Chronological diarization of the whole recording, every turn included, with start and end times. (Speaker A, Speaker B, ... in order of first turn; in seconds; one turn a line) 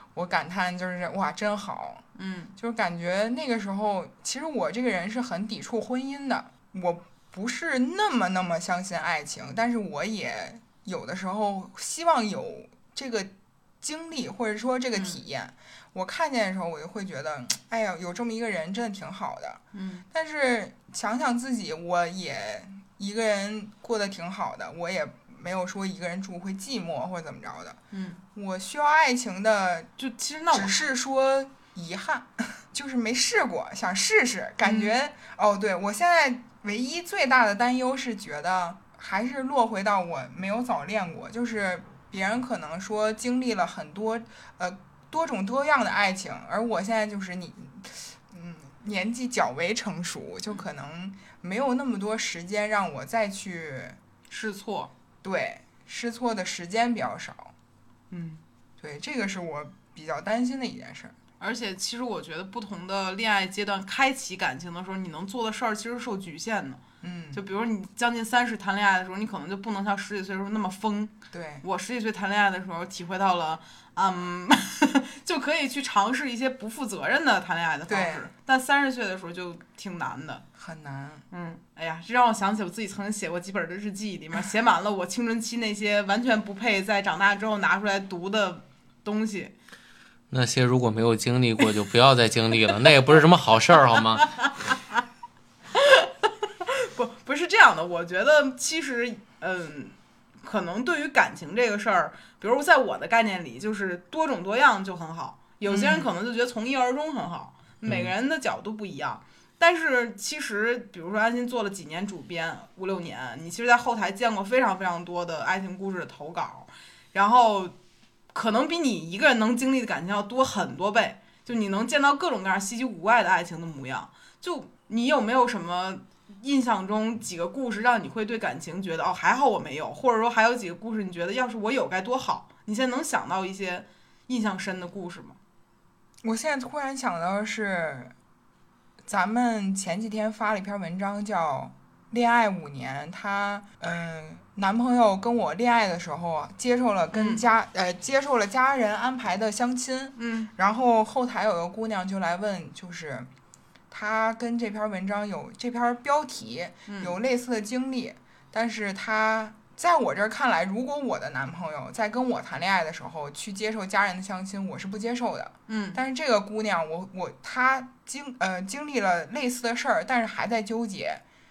Speaker A: 0.1-2.0
Speaker B: 2.2-2.5
Speaker A: 2.6-19.6
Speaker B: 19.7-20.1
Speaker A: 20.1-27.8
Speaker B: 27.9-28.2
Speaker A: 28.4-29.9
Speaker B: 30.0-30.8
Speaker A: 30.5-54.0
Speaker B: 34.6-35.0
Speaker B: 54.3-54.9
Speaker A: 55.2-57.5
Speaker B: 58.1-58.4
Speaker A: 58.8-61.2
Speaker B: 61.4-66.8
Speaker A: 67.0-67.4
Speaker B: 67.3-80.4
Speaker A: 71.3-71.7
Speaker A: 77.9-78.3
Speaker A: 80.6-81.2
Speaker B: 81.3-89.5
Speaker C: 90.3-94.4
Speaker B: 94.4-95.0
Speaker B: 95.7-117.8
Speaker A: 105.7-106.1
Speaker B: 118.3-135.4
Speaker A: 136.2-138.1
Speaker A: 139.1-153.3
Speaker B: 147.1-147.4
Speaker B: 150.2-150.5
Speaker A: 153.9-171.2
Speaker B: 156.9-157.2
Speaker B: 165.7-166.0